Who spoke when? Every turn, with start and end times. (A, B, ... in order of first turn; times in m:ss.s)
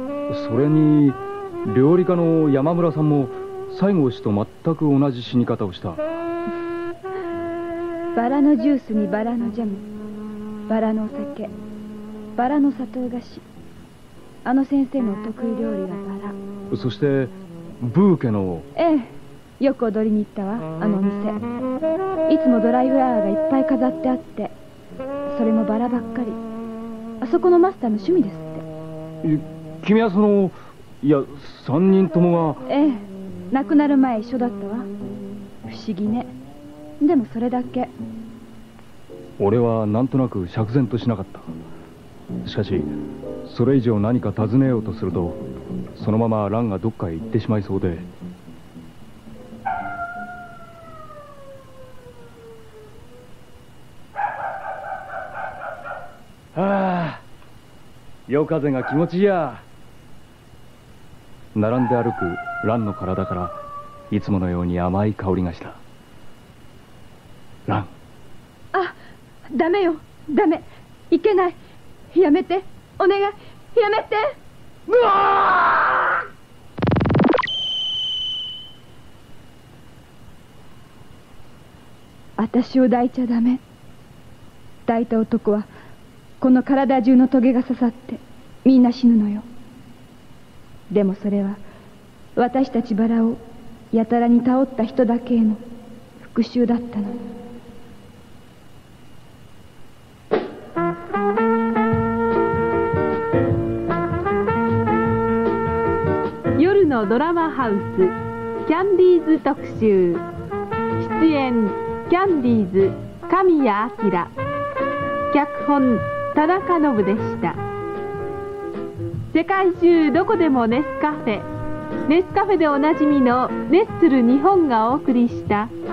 0:00.3-0:06.0 A
0:08.1-0:09.9 B
0:10.7-0:11.5 B
0:12.4-0:13.4 B
0:14.4-0:16.4 B
0:16.7-0:18.7 A
0:18.7-0:21.4 B
0:22.3-0:24.5 B
0:25.3-0:26.4 B
0:27.2-0:28.6 B
0:29.2-0:32.6 A
0:32.7-0:34.9 B
0:35.6-0:36.3 B
0:37.0-0:37.9 B
0:39.4-0:41.5 A
0:42.4-0:45.4 A
0:45.9-0:48.1 A
0:56.5-0:57.2 A
0:58.3-0:59.6 A
1:01.5-1:03.6 A
1:04.1-1:05.8 A
1:07.7-1:07.9 A
1:09.5-1:11.6 B
1:12.1-1:14.4 B
1:14.9-1:16.1 A
1:22.4-1:23.6 B
1:24.8-1:25.7 B
1:26.4-1:29.4 B
1:30.9-1:31.6 B
1:32.4-1:33.4 B
1:33.9-1:35.6 B
1:36.2-1:37.2 B
1:46.6-1:50.2 C
1:51.0-1:54.3 C
1:55.3-1:57.6 C
1:59.3-2:01.5 C
2:02.0-2:05.7 C